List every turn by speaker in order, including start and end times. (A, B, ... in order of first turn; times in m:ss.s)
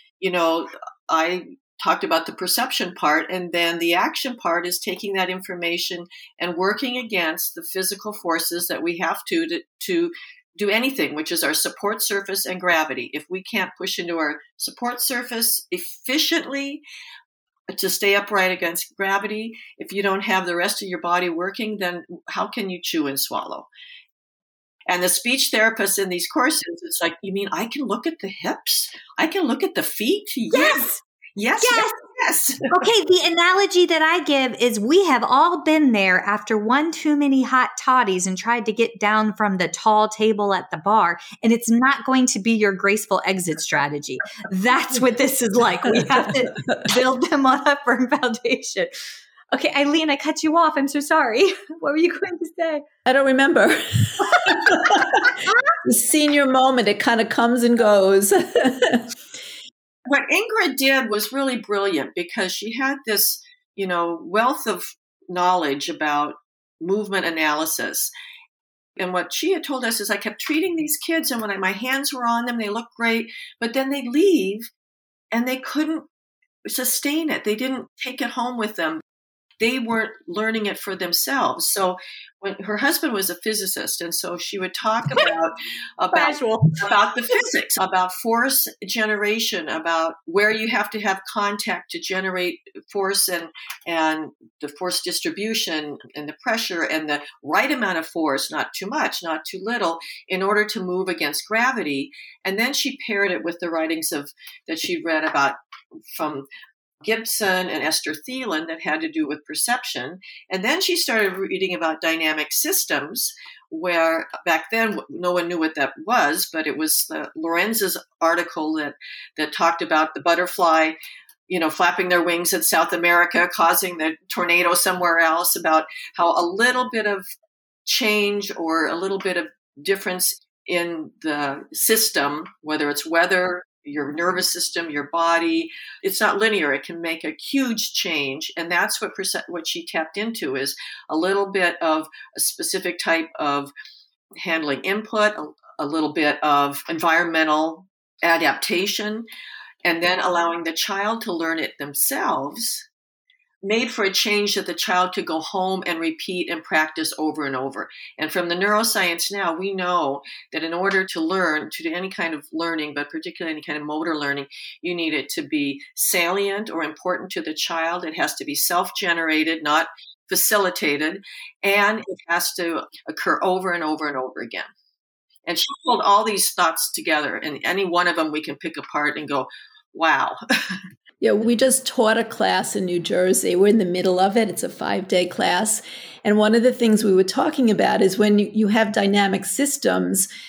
0:00.2-0:16.8 A
0:17.7-0:23.7 A
0:24.9-0:32.7 A
0:30.5-0:31.0 B
0:31.6-0:31.9 B
0:32.7-0:48.9 B
0:49.5-0:52.8 B
0:53.1-0:59.2 C
0:54.5-0:55.5 B
1:00.1-1:08.1 A
1:09.0-1:14.7 A
1:15.3-1:16.1 A
1:16.7-1:19.0 A
1:19.6-1:45.6 A
1:26.1-1:27.4 B
1:46.1-1:46.5 A
1:47.0-2:01.0 A
2:01.5-2:07.3 A
2:07.9-2:23.7 A
2:24.4-2:29.3 A
2:29.8-2:32.9 A
2:33.6-2:54.7 A
2:55.4-3:00.4 A
3:01.2-3:10.3 C